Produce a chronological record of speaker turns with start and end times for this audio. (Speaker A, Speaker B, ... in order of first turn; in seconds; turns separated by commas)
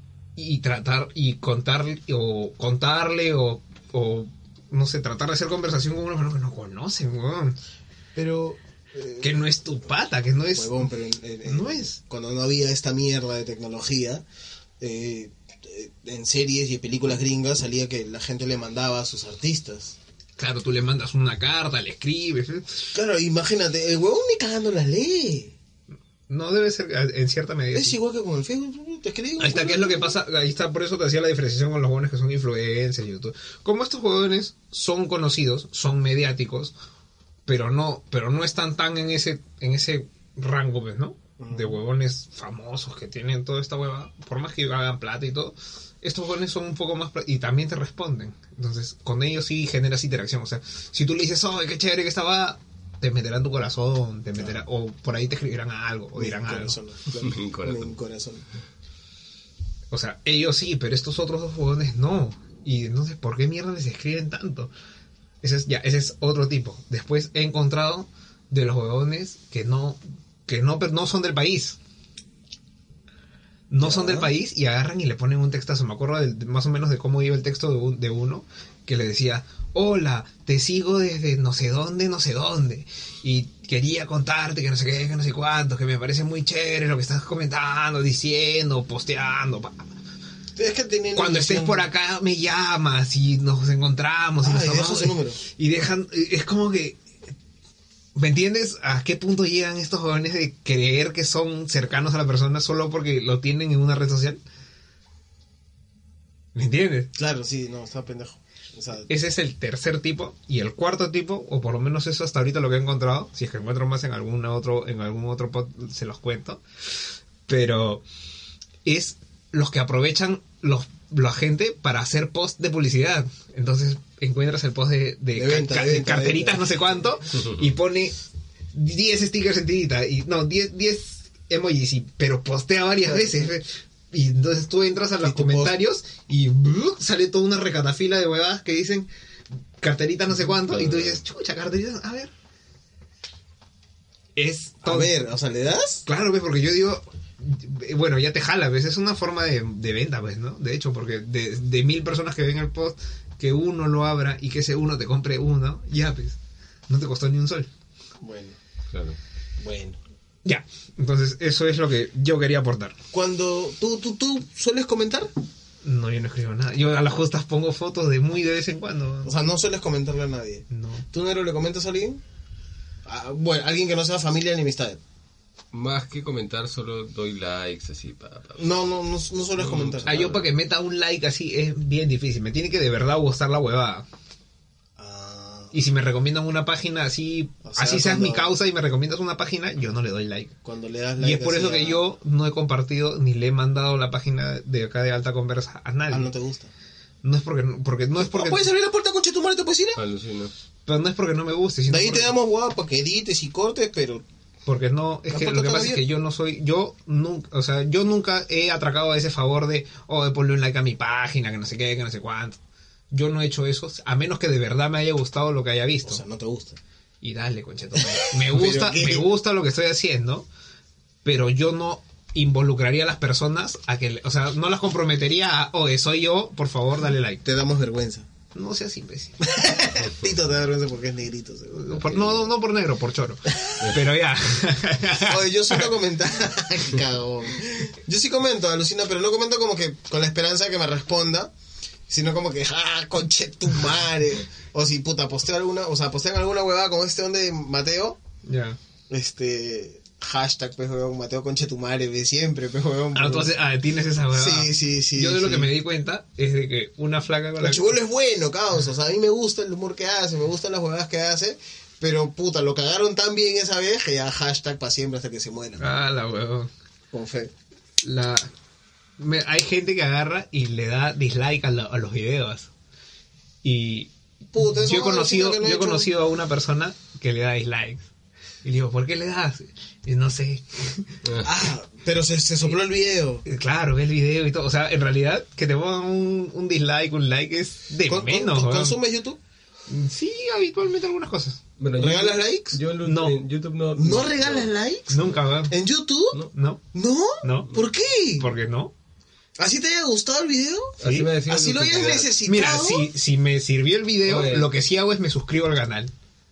Speaker A: 0.3-7.6, Speaker B: 8.1-9.4, Speaker A: 9.2-10.9, Speaker B: 10.5-14.2, Speaker A: 11.4-12.0, Speaker B: 14.8-19.9, Speaker A: 20.4-22.9, Speaker B: 22.9-25.6, Speaker A: 26.3-28.0, Speaker B: 27.7-30.2, Speaker A: 29.4-36.7, Speaker A: 37.5-56.8, Speaker B: 41.4-41.8, Speaker B: 56.1-58.5, Speaker C: 57.2-57.9, Speaker A: 59.9-64.7, Speaker A: 65.4-71.8, Speaker A: 73.7-89.9, Speaker B: 73.8-74.3, Speaker B: 90.5-91.9, Speaker A: 91.1-97.0, Speaker B: 94.4-95.4, Speaker A: 98.2-104.4, Speaker A: 106.5-107.1, Speaker B: 107.1-109.1, Speaker A: 109.1-116.6, Speaker A: 117.5-118.0, Speaker A: 118.8-128.1, Speaker B: 125.3-126.8, Speaker C: 127.3-127.6, Speaker A: 128.7-139.1, Speaker B: 133.0-133.5, Speaker B: 135.2-135.7, Speaker A: 139.8-142.3, Speaker C: 140.7-141.2, Speaker A: 144.3-145.1, Speaker B: 144.8-146.0, Speaker A: 146.1-156.4, Speaker A: 156.9-157.7, Speaker B: 158.2-158.6, Speaker C: 158.9-159.2, Speaker B: 159.6-160.0, Speaker A: 160.4-163.0, Speaker B: 163.1-165.3, Speaker A: 165.8-169.3, Speaker B: 169.2-172.2, Speaker A: 170.7-171.0, Speaker B: 173.0-175.0, Speaker C: 175.7-178.8, Speaker B: 178.6-180.2, Speaker C: 179.6-180.5, Speaker A: 180.1-184.1, Speaker B: 185.0-185.7, Speaker A: 185.7-190.5, Speaker B: 187.6-188.5, Speaker B: 190.6-192.0, Speaker A: 191.2-196.3, Speaker B: 196.1-196.7, Speaker A: 197.2-198.7, Speaker B: 198.2-200.0, Speaker C: 199.9-200.5, Speaker A: 200.8-202.3, Speaker B: 201.9-204.2, Speaker A: 204.7-212.6, Speaker B: 205.3-206.0, Speaker A: 213.1-216.2, Speaker B: 216.0-216.8, Speaker A: 217.2-220.4, Speaker B: 217.9-219.3, Speaker A: 221.2-227.4, Speaker B: 227.4-228.3, Speaker A: 228.5-229.4, Speaker B: 229.4-232.4, Speaker A: 231.7-235.9, Speaker B: 233.5-233.9, Speaker B: 235.2-241.5, Speaker B: 242.1-248.2, Speaker A: 248.4-248.8, Speaker B: 249.1-253.5, Speaker A: 253.1-257.9, Speaker B: 254.3-255.7, Speaker B: 257.6-265.9, Speaker A: 265.8-266.7, Speaker B: 267.1-267.5, Speaker A: 268.0-268.5, Speaker A: 269.2-272.7, Speaker A: 273.6-278.0, Speaker B: 274.5-276.1, Speaker A: 278.6-281.1, Speaker C: 281.2-281.5, Speaker B: 281.4-283.4, Speaker A: 283.4-289.0, Speaker B: 288.1-289.4, Speaker A: 289.9-291.6, Speaker C: 291.8-294.7, Speaker B: 291.9-292.8, Speaker A: 293.0-293.3, Speaker B: 293.9-296.4, Speaker A: 295.1-295.7, Speaker A: 296.5-296.8, Speaker B: 296.9-298.5, Speaker A: 297.4-297.7, Speaker A: 298.4-298.9, Speaker B: 299.6-303.1, Speaker C: 301.0-302.3, Speaker A: 301.0-301.3, Speaker A: 302.5-306.1, Speaker C: 304.2-304.7